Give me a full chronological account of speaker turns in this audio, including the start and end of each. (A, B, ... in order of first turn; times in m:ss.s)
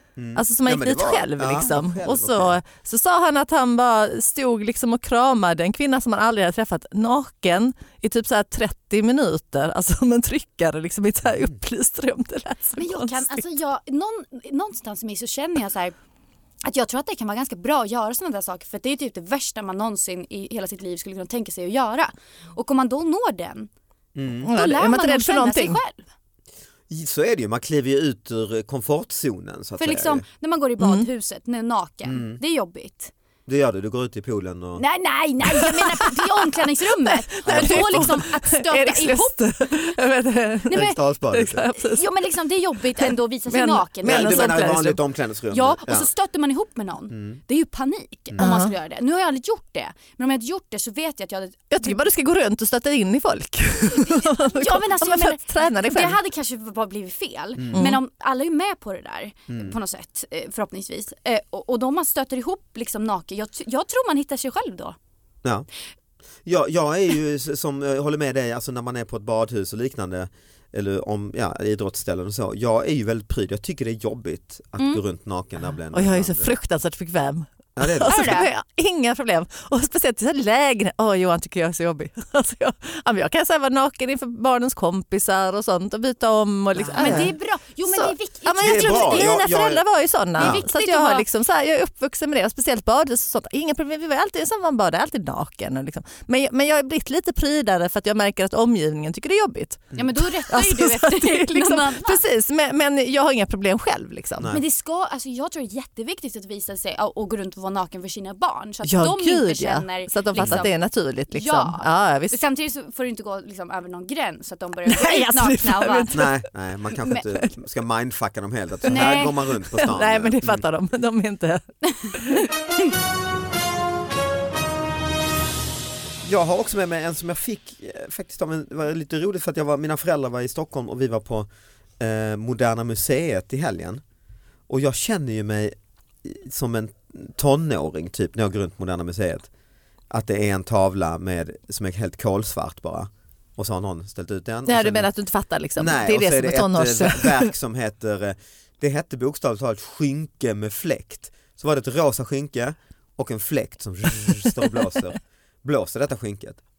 0:00.2-0:02.6 A
0:00.3-0:13.4 B
0:11.2-0:11.6 A
0:12.8-0:16.0 C
0:16.6-0:23.7 C
0:24.1-0:24.5 A
0:24.4-0:25.8 B
0:24.5-0:26.1 C
0:26.9-0:30.2 A
0:29.8-0:33.1 C
0:30.8-0:31.1 B
0:32.0-0:32.4 A
0:33.5-0:34.8 A
0:34.8-0:39.9 C
0:35.5-0:36.4 B
0:37.0-0:42.1 B
0:37.4-0:38.2 A
0:40.7-0:41.0 C
0:40.7-0:41.7 A
0:41.7-0:44.8 C
0:43.0-0:45.0 B
0:44.0-0:46.1 A
0:45.5-0:52.0 C
0:47.1-0:47.4 A
0:48.4-0:48.7 B
0:51.7-0:56.2 B
0:54.0-1:05.0 C
0:57.6-0:57.8 A
0:57.7-0:58.0 B
0:59.5-0:59.8 A
1:06.4-1:16.6 A
1:15.9-1:27.3 B
1:17.8-1:18.4 A
1:18.0-1:18.5 C
1:26.8-1:29.5 C
1:26.9-1:27.3 A
1:27.9-1:44.5 B
1:28.6-1:29.8 A
1:30.4-1:31.2 C
1:39.9-1:42.2 C
1:44.5-1:50.7 C
1:48.8-1:52.4 B
1:50.4-1:50.6 A
1:51.3-1:56.3 C
1:54.9-1:56.3 B
1:56.1-2:00.6 A
1:57.0-1:57.3 C
1:58.9-1:59.4 C
1:58.9-2:02.4 B
2:01.9-2:02.2 C
2:06.2-2:11.5 A
2:12.0-2:14.0 A
2:14.7-2:19.5 A
2:20.1-2:25.1 A
2:24.7-2:27.5 B
2:25.8-2:36.6 A